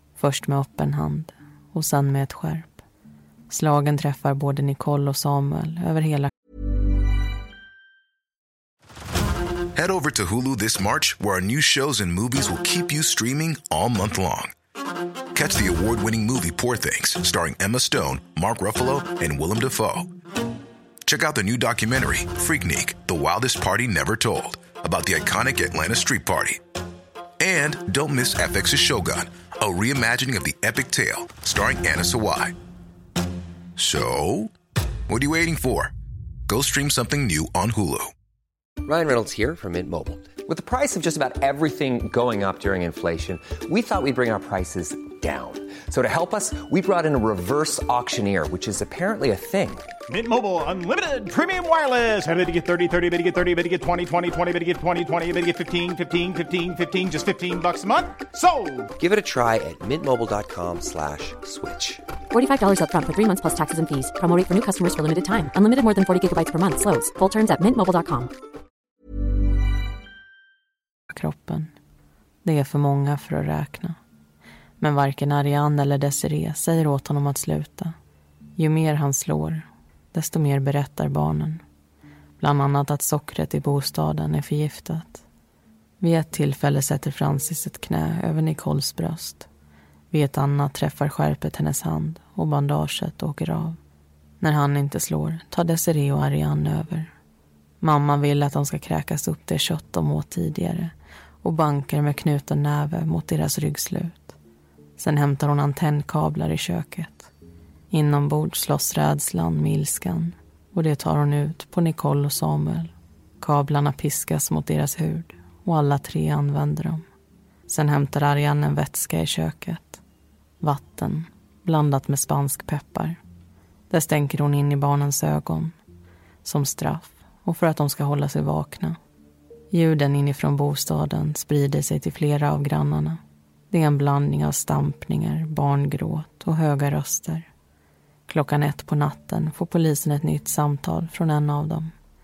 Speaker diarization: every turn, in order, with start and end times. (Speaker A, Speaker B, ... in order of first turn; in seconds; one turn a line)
Speaker A: 0.2-2.8
Speaker A: 3.5-6.3
Speaker B: 9.7-14.5
Speaker B: 15.3-20.1
Speaker B: 21.0-26.6
Speaker B: 27.4-32.5
Speaker B: 33.8-34.5
Speaker B: 35.1-35.9
Speaker B: 36.5-38.1
Speaker C: 38.8-49.9
Speaker D: 50.1-58.9
Speaker C: 59.0-62.0
Speaker E: 62.3-68.3
Speaker A: 71.1-71.7
Speaker A: 72.4-74.0
Speaker A: 74.8-77.9
Speaker A: 78.5-81.6
Speaker A: 82.4-85.2
Speaker A: 86.0-89.5
Speaker A: 90.1-93.8
Speaker A: 94.4-97.1
Speaker A: 97.8-104.4
Speaker A: 105.0-107.3
Speaker A: 107.9-117.0
Speaker A: 117.7-120.0
Speaker A: 120.6-123.2
Speaker A: 123.9-125.7
Speaker A: 126.4-129.0
Speaker A: 129.7-133.2
Speaker A: 133.7-137.5
Speaker A: 138.3-141.9